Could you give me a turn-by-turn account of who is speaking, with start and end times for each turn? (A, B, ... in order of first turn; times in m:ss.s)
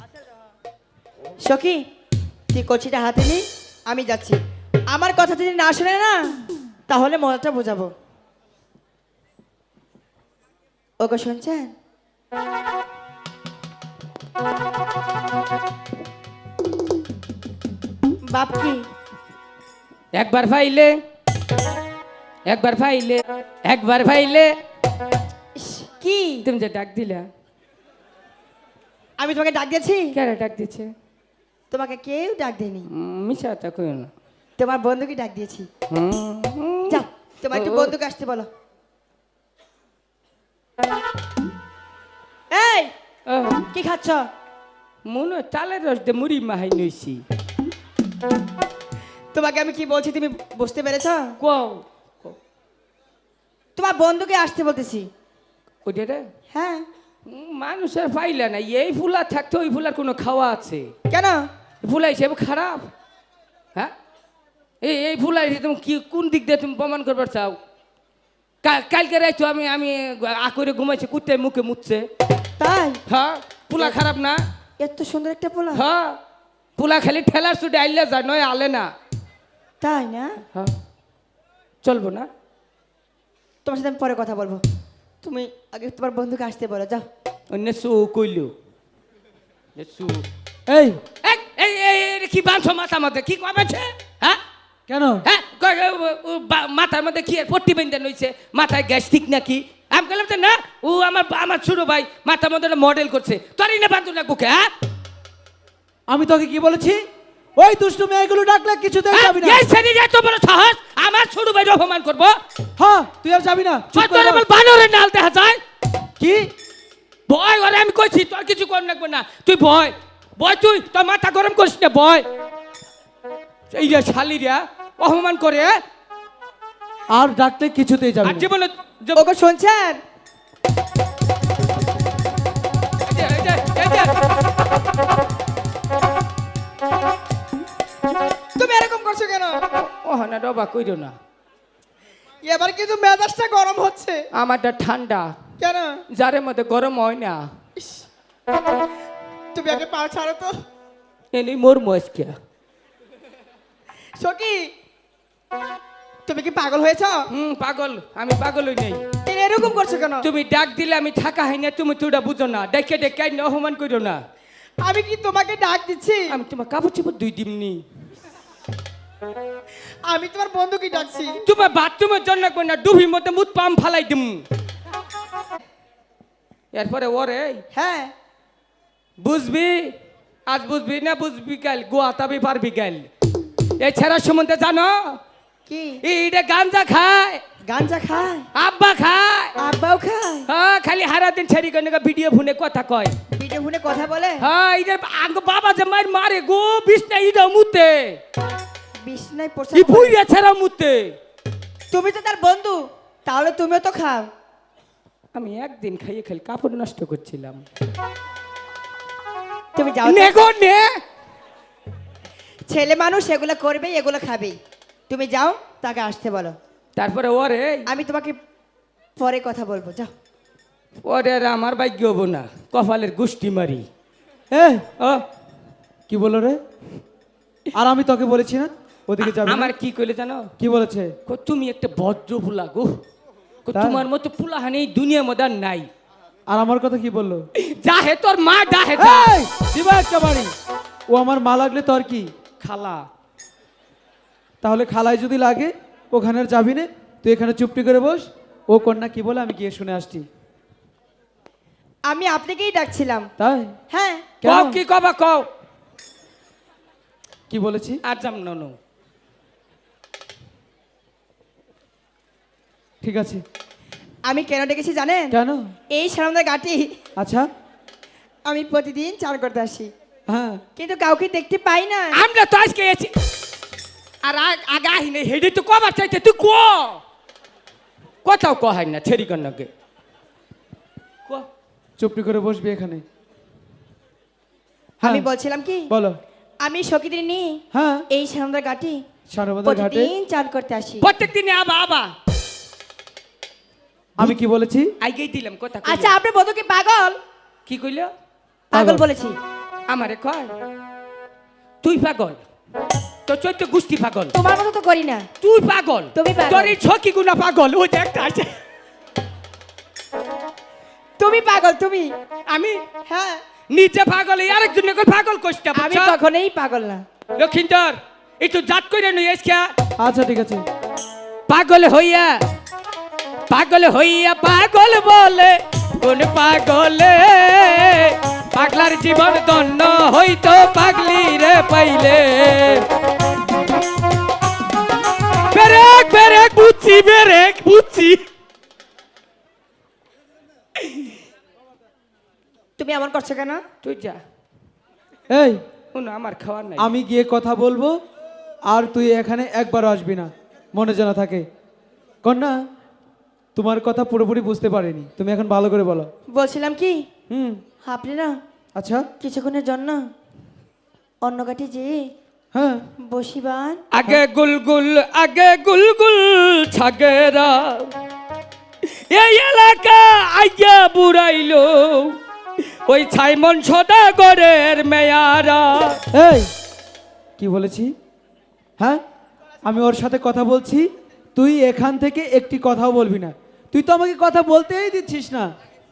0:01.4-0:01.8 A
0:02.5-0:07.9 A
0:11.0-0:11.7 A
0:18.3-0:18.9 A
0:20.1-0:21.0 B
0:22.4-0:24.6 B
0:25.6-0:26.5 A
0:26.4-0:27.3 B
0:29.2-0:30.2 A
0:30.1-0:30.9 B
0:31.7-0:32.9 A
0:32.9-0:34.1 B
0:34.6-0:35.7 A
0:35.9-0:37.9 B
0:36.9-0:38.5 A
0:42.5-0:42.9 A
0:43.3-0:43.6 B
0:43.7-0:44.3 A
0:45.0-0:47.2 B
0:49.3-0:51.4 A
0:51.4-0:52.4 B
0:53.8-0:55.1 A
0:55.8-0:56.3 B
0:56.5-0:56.8 A
0:57.3-1:00.9 B
1:01.1-1:01.5 A
1:01.8-1:02.9 B
1:04.8-1:07.6 B
1:08.6-1:12.1 B
1:12.6-1:13.0 A
1:13.1-1:14.4 B
1:14.8-1:15.8 A
1:15.7-1:16.2 B
1:16.8-1:18.9 B
1:19.8-1:20.4 A
1:21.8-1:22.3 B
1:23.6-1:24.6 A
1:25.2-1:27.0 A
1:27.5-1:28.5 B
1:29.8-1:30.2 B
1:30.7-1:31.0 C
1:31.2-1:34.4 B
1:34.9-1:35.2 C
1:35.2-1:44.7 B
1:46.1-1:47.0 C
1:47.6-1:49.6 C
1:49.1-1:52.4 B
1:52.8-1:54.4 C
1:53.9-1:55.6 B
1:56.2-1:56.5 C
1:57.3-2:02.2 B
2:03.7-2:05.8 B
2:07.1-2:08.5 C
2:08.2-2:09.2 B
2:09.2-2:10.0 A
2:13.0-2:14.2 B
2:18.6-2:19.6 A
2:19.7-2:21.1 B
2:22.4-2:24.2 A
2:24.3-2:25.4 B
2:25.6-2:26.0 A
2:26.1-2:27.5 B
2:27.8-2:28.0 A
2:29.5-2:30.6 A
2:31.3-2:32.4 B
2:34.2-2:34.7 A
2:36.2-2:37.3 A
2:37.3-2:39.0 B
2:39.2-2:40.3 A
2:40.2-2:44.2 B
2:44.8-2:46.4 A
2:46.3-2:47.8 B
2:50.0-2:51.4 A
2:51.4-2:54.4 B
2:56.7-2:57.6 B
2:57.7-2:58.1 A
2:59.2-2:59.9 B
3:00.5-3:03.1 B
3:03.8-3:05.2 B
3:05.7-3:06.0 A
3:06.0-3:07.4 B
3:07.6-3:08.5 A
3:08.5-3:09.5 B
3:09.6-3:10.5 A
3:10.5-3:13.2 B
3:13.3-3:14.5 A
3:14.4-3:18.2 B
3:19.0-3:20.2 A
3:19.7-3:21.2 B
3:21.9-3:24.3 A
3:25.3-3:27.6 B
3:29.7-3:30.4 A
3:30.0-3:31.0 B
3:32.7-3:34.6 A
3:35.1-3:36.6 A
3:37.0-3:37.9 B
3:37.9-3:38.4 A
3:39.2-3:40.1 A
3:41.0-3:43.9 B
3:44.5-3:44.8 C
3:46.1-3:46.6 C
3:47.7-3:49.7 C
3:49.2-3:50.5 B
3:50.6-3:51.1 C
3:51.3-3:53.0 B
3:53.6-3:55.9 B
3:53.7-3:54.0 C
3:56.5-3:57.4 C
3:57.6-3:59.4 B
3:59.0-4:00.5 C
4:01.1-4:02.3 C
4:02.6-4:03.1 B
4:04.6-4:10.3 C
4:12.0-4:13.3 A
4:13.4-4:13.8 C
4:13.9-4:14.3 A
4:14.4-4:14.8 C
4:14.4-4:15.5 B
4:17.5-4:18.0 C
4:18.0-4:18.8 B
4:23.0-4:23.4 C
4:24.2-4:25.4 A
4:25.3-4:25.7 C
4:25.9-4:26.9 A
4:27.2-4:27.5 C
4:28.4-4:29.9 A
4:30.3-4:30.6 C
4:30.8-4:32.2 A
4:32.1-4:33.1 B
4:34.2-4:37.0 B
4:38.2-4:39.7 B
4:42.0-4:43.0 C
4:45.0-4:45.9 A
4:45.9-4:46.2 C
4:46.6-4:49.0 A
4:47.7-4:48.0 C
4:49.3-4:50.1 C
4:49.6-4:51.1 A
4:51.0-4:52.1 B
4:54.2-4:54.9 C
4:55.0-4:56.2 B
4:55.8-4:57.2 A
4:57.6-4:58.1 B
4:58.7-4:59.4 A
4:58.7-4:59.0 C
4:59.9-5:00.5 B
5:01.8-5:02.4 B
5:03.3-5:04.3 B
5:04.3-5:05.3 A
5:05.4-5:08.6 B
5:06.1-5:06.8 A
5:11.2-5:12.1 A
5:12.5-5:12.8 B
5:13.0-5:13.4 A
5:13.7-5:16.2 B
5:15.7-5:17.0 A
5:17.3-5:19.7 B
5:20.0-5:20.6 C
5:21.5-5:22.4 B
5:23.5-5:32.8 B
5:35.5-5:38.2 B
5:42.8-5:43.6 A
5:43.8-5:44.2 B
5:45.3-5:45.6 C
5:45.9-5:46.9 B
5:46.8-5:48.0 C
5:48.7-5:51.4 C
5:52.2-5:52.6 C
5:53.5-5:56.1 C
5:56.3-5:57.0 A
5:57.3-5:57.6 C
5:57.8-5:58.4 A
5:58.8-5:59.1 C
5:59.2-6:00.0 A
6:01.2-6:02.0 A
6:02.5-6:02.8 C
6:03.0-6:03.8 A
6:03.9-6:07.9 B
6:08.8-6:16.0 B
6:16.1-6:16.5 C
6:17.4-6:17.9 C
6:19.6-6:25.5 C